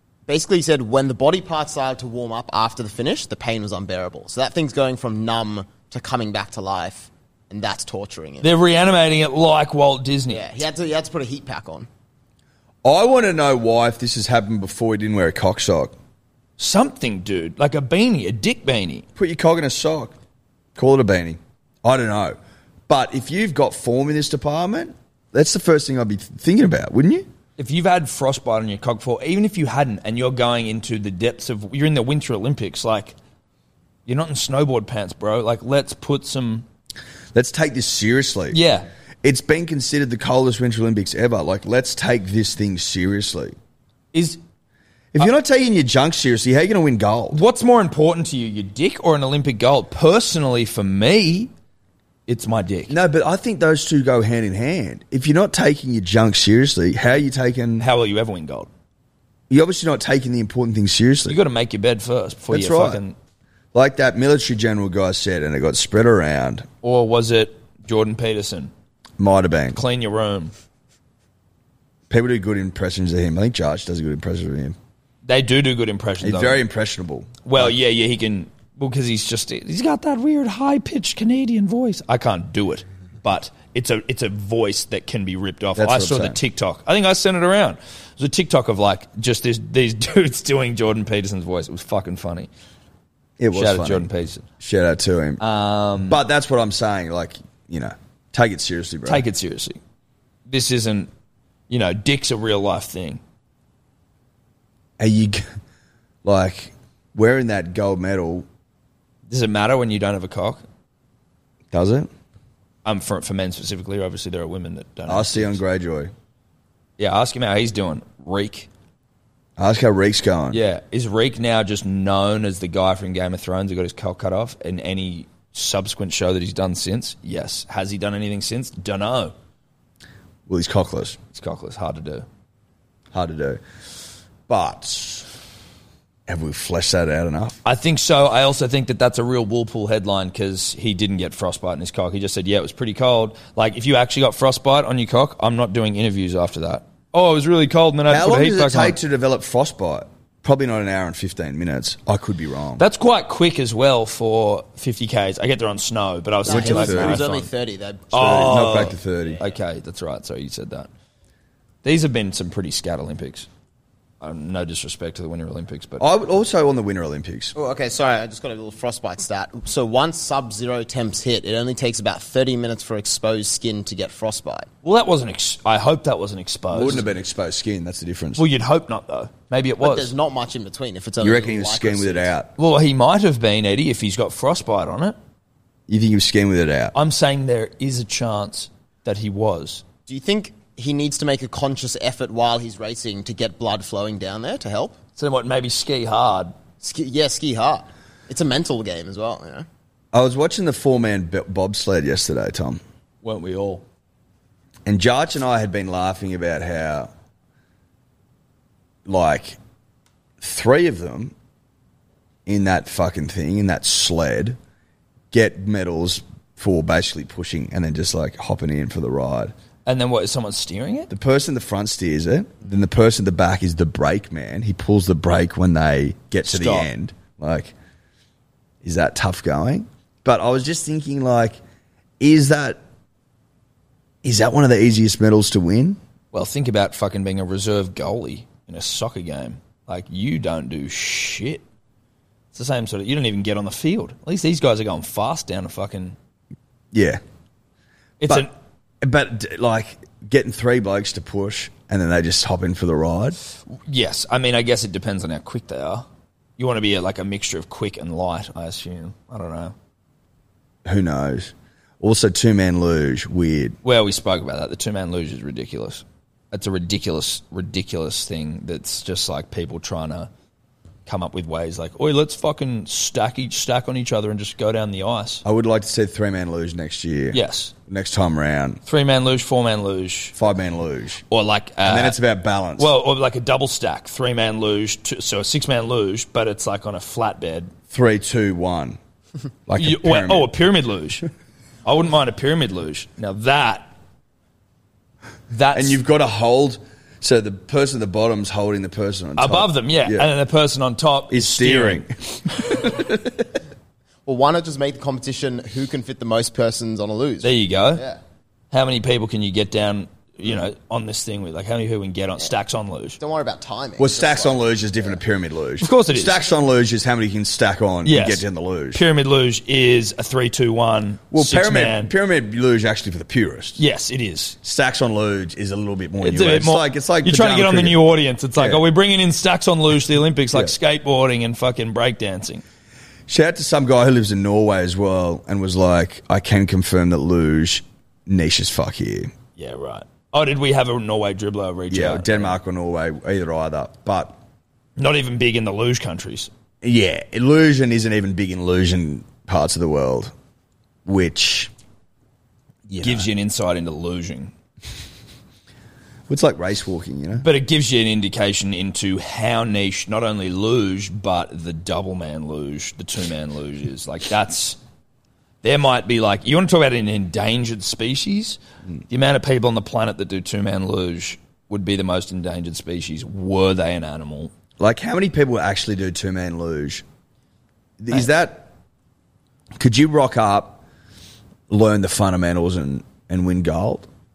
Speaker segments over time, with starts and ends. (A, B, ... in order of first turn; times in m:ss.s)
0:00.3-0:08.4 A
0:08.4-0:10.4 B
0:10.3-0:11.9 A
0:12.8-0:16.0 C
0:16.6-0:19.0 B
0:19.2-0:20.1 C
0:20.7-0:22.4 C
0:22.9-0:27.3 C
0:27.6-0:33.1 B
0:34.0-0:36.6 B
0:37.3-0:38.6 C
0:38.5-0:38.8 B
0:39.2-0:43.5 C
0:44.1-0:44.4 B
0:45.1-0:47.4 C
0:47.3-0:51.5 B
0:52.3-0:52.9 B
0:52.9-0:57.8 C
0:57.8-0:58.7 B
0:59.5-1:01.4 C
1:01.3-1:03.1 B
1:02.5-1:03.0 C
1:03.7-1:06.7 C
1:06.8-1:08.7 B
1:09.2-1:09.8 C
1:09.7-1:10.5 B
1:12.1-1:14.8 C
1:15.2-1:16.6 B
1:16.2-1:17.7 C
1:17.4-1:32.5 B
1:25.8-1:26.4 C
1:33.4-1:35.4 C
1:33.5-1:34.5 B
1:35.4-1:36.2 B
1:36.0-1:39.2 C
1:39.0-1:39.8 B
1:40.5-1:41.1 B
1:41.7-1:43.2 B
1:45.0-1:45.4 C
1:46.2-1:48.4 C
1:49.3-1:50.6 B
1:51.7-1:52.1 C
1:52.8-1:55.6 B
1:55.0-1:56.1 C
1:57.0-1:58.7 B
1:59.6-2:00.6 C
2:00.5-2:09.3 B
2:10.5-2:11.2 C
2:11.3-2:12.2 B
2:13.1-2:13.6 C
2:14.5-2:15.3 C
2:16.3-2:17.6 C
2:17.6-2:29.0 B
2:28.1-2:32.8 C
2:32.8-2:37.5 B
2:36.4-2:38.8 A
2:36.4-2:37.3 C
2:38.1-2:40.9 B
2:38.1-2:39.4 C
2:41.8-2:43.5 B
2:44.2-2:46.0 B
2:46.0-2:47.5 C
2:47.5-2:54.7 A
2:54.8-2:57.1 B
2:56.7-2:58.4 C
2:58.4-3:00.1 B
2:59.8-3:02.3 A
3:01.2-3:02.5 C
3:02.6-3:05.2 B
3:05.9-3:06.9 C
3:06.9-3:09.8 B
3:10.1-3:15.0 A
3:15.2-3:16.5 B
3:16.8-3:19.6 A
3:20.1-3:22.8 C
3:23.2-3:23.8 B
3:24.8-3:27.1 C
3:29.0-3:29.6 C
3:30.4-3:31.3 C
3:32.4-3:34.6 C
3:35.3-3:39.5 C
3:39.8-3:41.1 B
3:41.1-3:47.7 C
3:46.4-3:46.9 B
3:48.8-3:51.6 C
3:52.2-3:52.8 C
3:54.2-3:56.0 C
3:56.3-4:01.6 B
4:02.5-4:06.2 B
4:06.9-4:07.2 C
4:08.2-4:08.5 B
4:09.0-4:13.4 C
4:13.7-4:16.0 B
4:16.6-4:19.7 B
4:20.8-4:23.8 C
4:23.8-4:30.3 B
4:31.0-4:35.4 B
4:35.4-4:38.8 C
4:37.3-4:37.7 B
4:38.8-4:40.4 B
4:40.3-4:41.2 C
4:41.3-4:42.2 B
4:41.8-4:42.9 C
4:42.8-4:47.7 B
4:47.9-4:49.0 C
4:49.6-4:50.5 C
4:49.8-4:51.2 B
4:51.8-4:53.9 B
4:55.5-4:56.0 B
4:55.7-5:00.3 C
4:59.4-5:02.0 B
5:01.3-5:03.5 C
5:04.2-5:08.2 A
5:07.4-5:08.0 B
5:08.7-5:13.2 B
5:13.2-5:15.2 A
5:14.0-5:19.0 C
5:15.8-5:16.4 B
5:18.0-5:22.1 B
5:21.3-5:23.8 C
5:23.8-5:24.6 B
5:24.6-5:28.0 C
5:26.2-5:32.6 B
5:28.6-5:28.8 C
5:33.3-5:39.3 C
5:39.6-5:42.6 B
5:41.9-5:44.4 C
5:45.0-5:46.5 B
5:46.8-5:50.3 C
5:51.0-5:51.7 C
5:52.9-5:53.3 C
5:53.0-5:54.5 B
5:56.3-5:57.4 C
5:57.4-6:04.8 B
6:05.6-6:08.6 B
6:09.1-6:14.5 B
6:14.8-6:17.0 C
6:18.0-6:18.7 C
6:19.8-6:20.8 C
6:21.7-6:24.1 C